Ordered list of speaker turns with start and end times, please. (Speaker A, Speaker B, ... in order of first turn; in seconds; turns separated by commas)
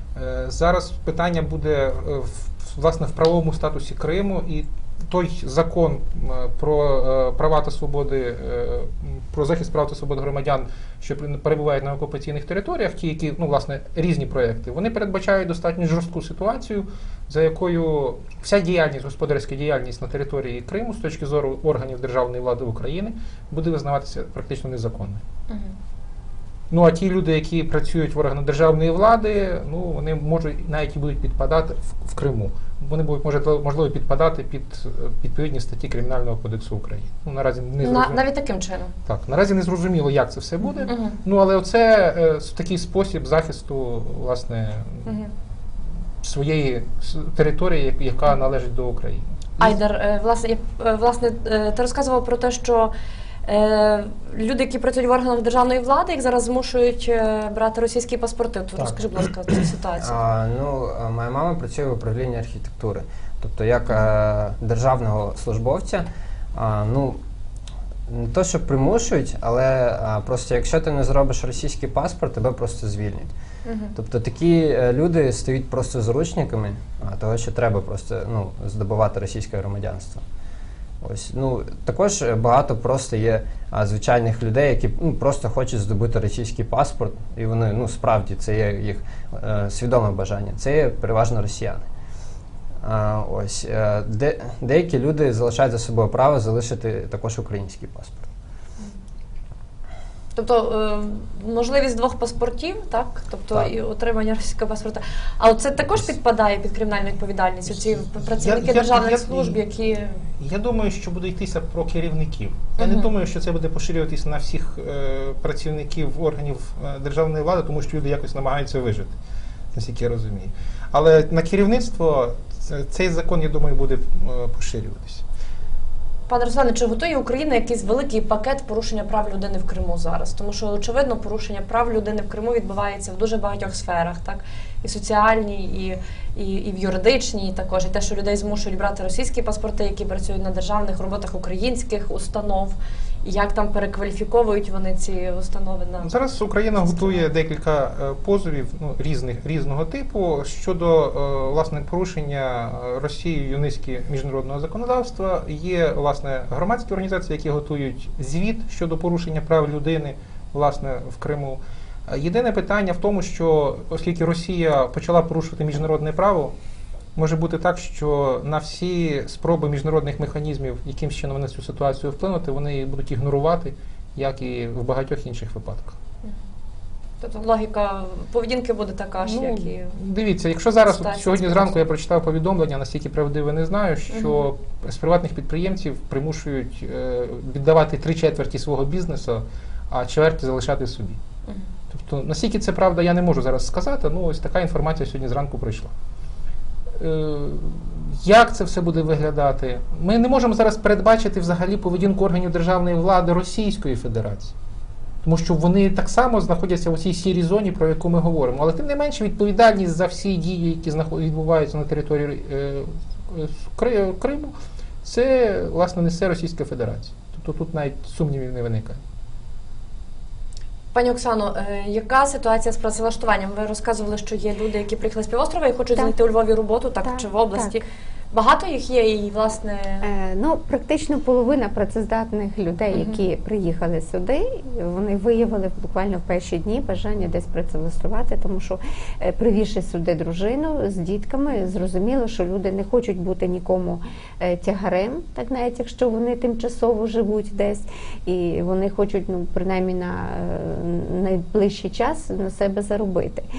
Speaker A: 0.1-25.2, Speaker B: 25.5-25.8, Speaker A: 26.7-38.2, Speaker B: 37.8-38.9, Speaker A: 39.0-45.1, Speaker B: 40.9-41.2, Speaker B: 45.0-45.3, Speaker A: 46.2-49.8, Speaker B: 49.6-52.9, Speaker B: 53.4-60.2, Speaker C: 60.0-67.2, Speaker C: 68.1-73.3, Speaker B: 73.6-73.9, Speaker C: 73.9-80.2, Speaker C: 81.0-91.8, Speaker C: 92.8-98.3, Speaker B: 100.3-110.2, Speaker A: 108.2-109.6, Speaker A: 110.4-119.2, Speaker B: 112.8-113.1, Speaker A: 119.7-125.2, Speaker B: 126.3-146.1, Speaker A: 146.0-166.5, Speaker B: 146.8-147.2, Speaker A: 167.2-176.0, Speaker B: 177.2-179.9, Speaker A: 179.2-191.2, Speaker B: 180.8-181.8, Speaker B: 184.1-184.5, Speaker A: 191.9-195.9, Speaker A: 197.0-204.5, Speaker A: 205.2-219.0, Speaker B: 220.9-230.1, Speaker D: 227.0-227.8, Speaker D: 230.0-253.4, Speaker B: 232.9-233.2